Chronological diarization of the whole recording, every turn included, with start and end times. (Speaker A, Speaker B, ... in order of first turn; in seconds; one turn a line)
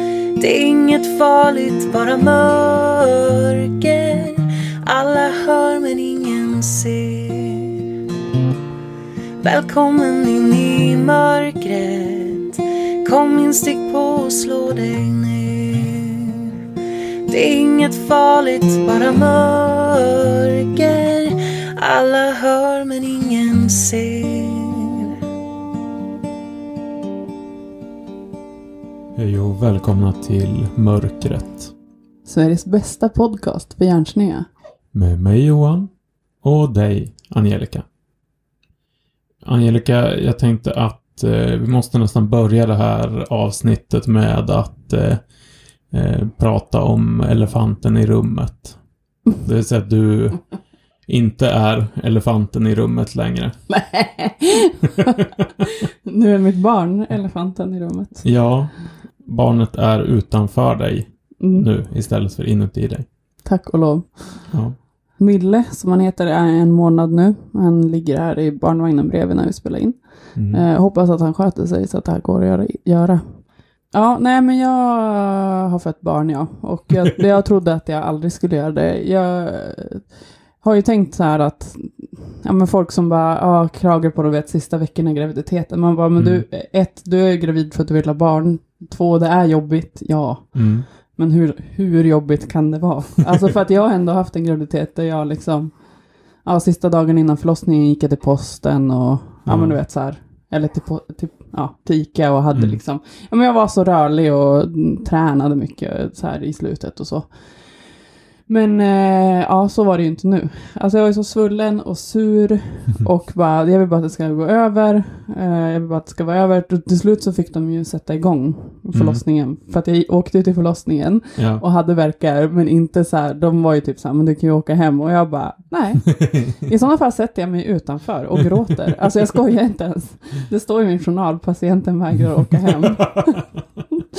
Speaker A: 0.4-7.8
Speaker A: 9.4-16.6
Speaker A: 17.3-25.1
Speaker B: 29.1-31.7
Speaker C: 32.2-34.5
Speaker B: 34.9-35.9
Speaker B: 36.4-37.9
Speaker B: 39.4-45.2
Speaker B: 45.9-48.8
Speaker B: 49.4-50.4
Speaker B: 51.1-53.5
Speaker C: 53.7-55.2
Speaker C: 56.0-58.2
Speaker B: 58.2-63.0
Speaker C: 61.4-61.7
Speaker C: 63.4-64.5
Speaker B: 64.5-64.7
Speaker C: 65.2-95.9
Speaker B: 70.3-70.6
Speaker B: 86.2-86.4
Speaker B: 90.5-90.8
Speaker C: 96.4-107.9
Speaker B: 99.5-99.8
Speaker B: 102.5-102.8
Speaker C: 108.5-133.5
Speaker B: 118.9-119.2
Speaker B: 121.3-121.6
Speaker B: 132.6-133.3